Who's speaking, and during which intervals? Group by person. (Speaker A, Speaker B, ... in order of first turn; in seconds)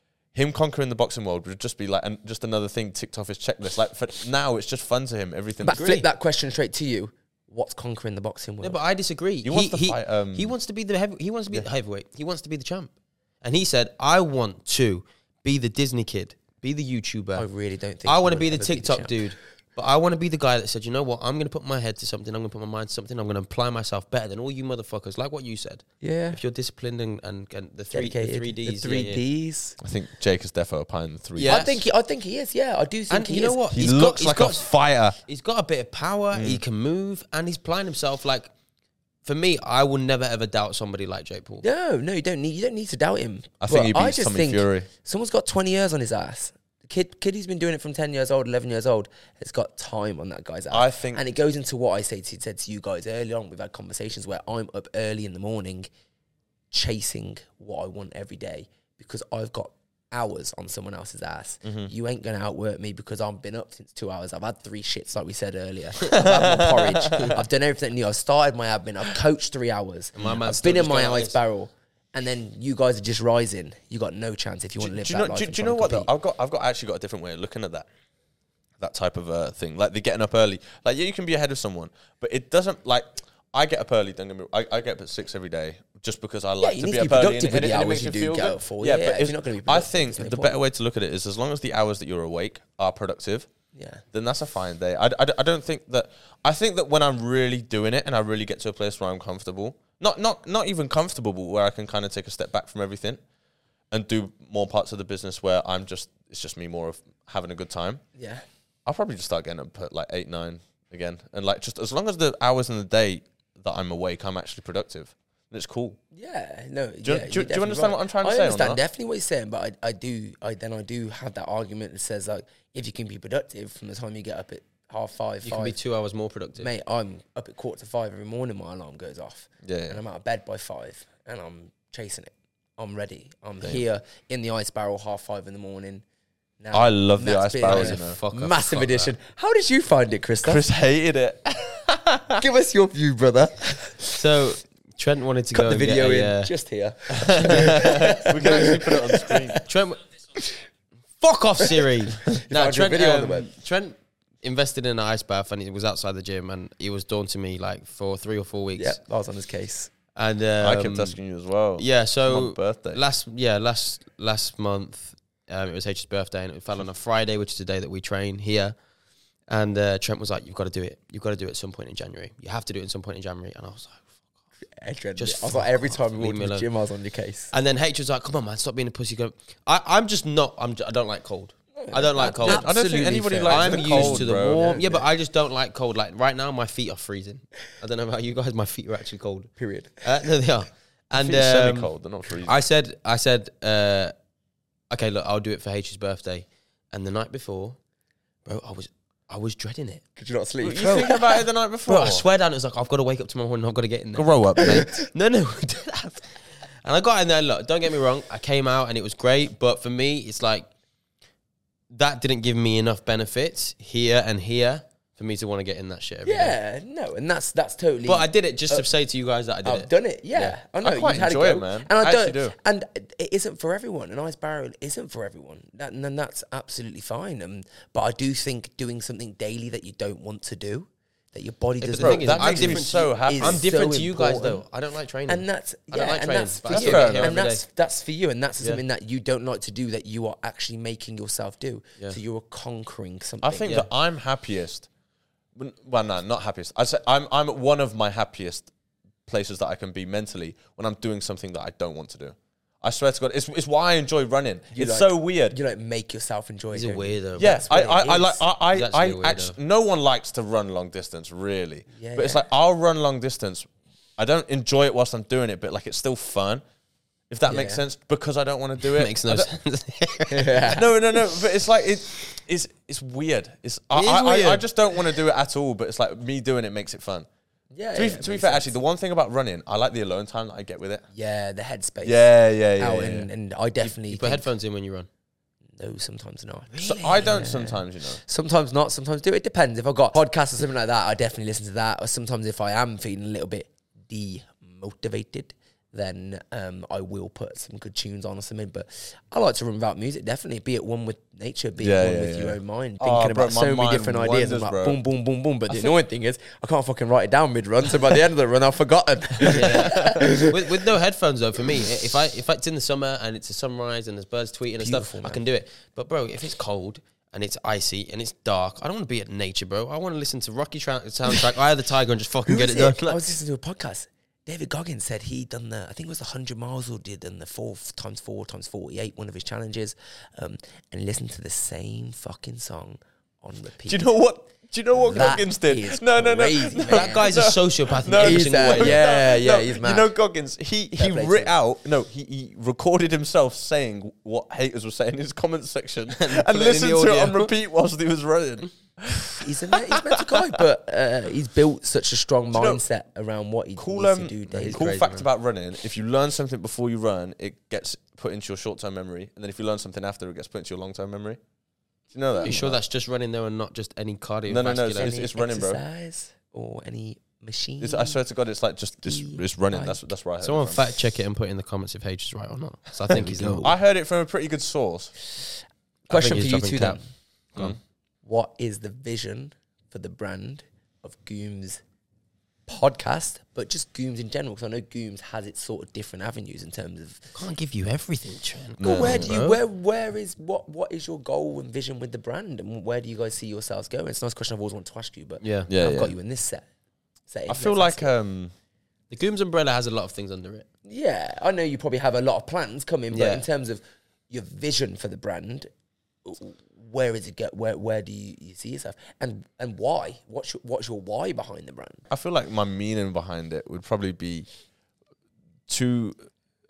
Speaker A: 0.3-5.9, 9.4-10.5, 29.8-31.7, 33.7-35.2, 36.3-36.6, 43.6-44.9, 50.7-51.2, 61.6-61.9, 66.1-67.4, 74.8-77.9, 78.8-93.5, 94.1-103.2, 103.9-108.0, 108.9-116.0, 117.0-118.8, 129.6-130.0, 136.7-138.2, 140.4-142.4, 147.2-149.6, 160.6-163.0, 182.4-184.8, 191.2-192.6, 200.6-202.2, 204.2-204.9, 220.8-222.6, 232.0-233.6, 236.7-237.4, 243.4-244.9, 245.6-248.7, 249.3-255.6, 257.4-266.6, 267.3-269.5, 270.7-277.3, 277.9-281.1, 282.0-283.3, 286.8-288.2, 301.8-305.0, 309.5-310.2, 333.9-350.4, 352.5-352.8, 353.8-361.4, 362.1-362.8, 364.5-365.8, 367.8-370.9, 373.6-375.2, 388.8-389.3, 395.7-396.1, 397.5-398.5, 412.1-414.5, 415.7-416.2
Speaker B: 5.6-8.8, 17.4-19.3, 26.0-26.4, 27.9-29.8, 31.4-33.7, 41.6-55.9, 56.7-76.1, 86.6-90.6, 93.7-94.0, 108.2-108.5, 116.1-125.8, 126.6-136.0, 136.6-140.7, 142.4-144.2, 145.5-149.6, 151.7-153.5, 158.8-159.9, 174.7-177.5, 181.8-185.1, 189.6-190.1, 200.2-201.4, 204.6-204.9, 216.2-218.9, 219.6-234.6, 235.3-243.9, 254.7-258.4, 261.9-262.4, 267.5-267.8, 270.3-270.9, 277.7-278.8, 281.1-282.2, 282.8-284.5, 285.7-310.8, 314.8-315.4, 322.5-334.1, 335.0-337.4, 338.1-340.1, 341.0-341.5, 349.4-354.9, 364.9-368.2, 369.0-370.1, 373.1-373.8, 376.1-377.0, 378.2-381.8, 382.7-387.3, 388.8-396.7, 397.3-398.1, 400.9-405.7, 406.2-412.0
Speaker C: 5.7-6.1, 8.6-12.9, 13.4-17.5, 18.1-29.2, 31.4-31.8, 33.1-34.7, 35.2-38.5, 39.2-41.6, 70.2-71.4, 125.4-126.7, 137.6-139.1, 144.1-146.5, 149.6-150.0, 151.2-159.0, 160.1-161.2, 161.8-168.8, 169.5-174.1, 175.2-176.7, 177.5-182.7, 183.4-194.1, 194.9-197.8, 198.5-200.0, 201.9-210.7, 211.9-216.6, 218.1-220.6, 231.8-237.7, 256.7-257.7, 258.7-259.6, 268.8-270.8, 273.9-274.7, 283.8-285.1, 286.8-287.4, 309.4-323.3, 336.9-339.0, 346.1-347.5, 354.5-355.3, 362.4-365.2, 370.4-373.7, 376.1-377.0, 387.3-389.6, 395.4-395.7, 399.1-400.7, 403.1-403.5